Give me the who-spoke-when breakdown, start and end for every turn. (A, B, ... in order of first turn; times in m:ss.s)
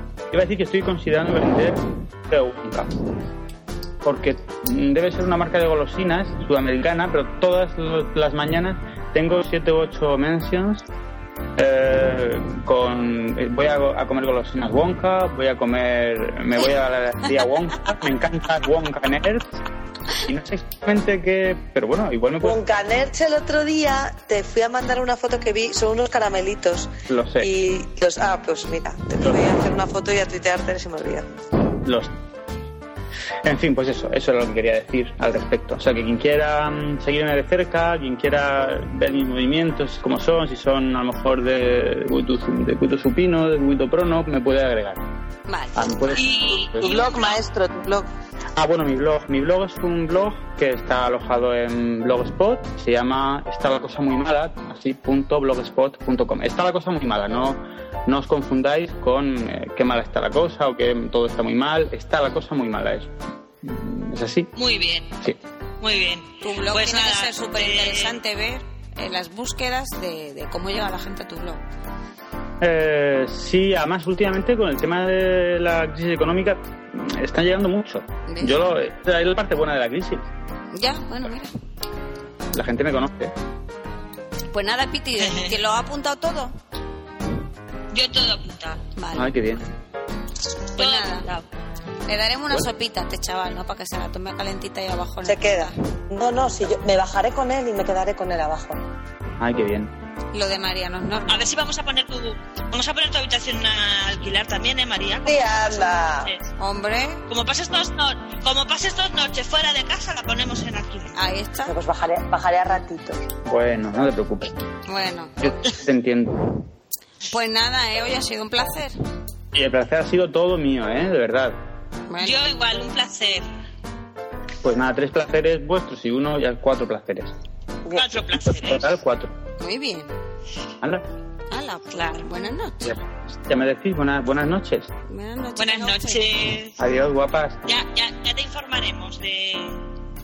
0:00.3-0:03.0 A
0:04.0-0:10.9 A
0:11.6-0:19.6 A
0:20.1-0:22.6 A
0:22.4-0:31.3 B
0:27.1-0:27.5 A
0:31.8-0:32.1 A
0:33.4-0:45.0 A
0:45.5-0:46.0 C
0:45.8-0:46.9 A
0:46.1-0:47.4 D
0:46.5-0:48.1 B
0:48.6-1:03.1 A
1:03.6-1:04.5 A
1:04.6-1:05.1 D
1:05.8-1:08.2 D
1:06.4-1:11.6 C
1:12.6-1:20.3 A
1:18.3-1:18.6 C
1:20.7-1:21.5 C
1:22.5-1:23.3 A
1:24.5-1:26.5 C
1:25.2-1:25.6 D
1:27.9-1:28.8 D
1:29.0-1:29.4 C
1:29.2-1:29.6 A
1:30.8-1:31.3 C
1:30.8-1:31.5 D
1:32.1-1:35.7 C
1:35.2-1:38.8 B
1:39.4-1:39.9 A
1:40.3-1:41.5 C
1:41.3-1:46.5 D
1:45.2-1:46.3 B
1:46.6-1:47.2 C
1:47.3-1:51.2 D
1:51.2-1:51.8 C
1:51.6-1:53.2 B
1:53.5-1:54.6 A
1:54.9-1:55.4 C
1:55.4-1:56.5 A
1:57.3-1:59.0 C
1:59.5-2:01.6 A
2:02.1-2:02.4 C
2:02.2-2:03.5 D
2:04.6-2:07.4 A
2:07.9-2:08.9 D
2:08.4-2:09.3 A
2:09.6-2:10.1 C
2:11.5-2:12.9 C
2:12.8-2:14.9 A
2:15.1-2:16.2 C
2:15.6-2:16.8 D
2:16.8-2:17.6 A
2:17.6-2:19.8 D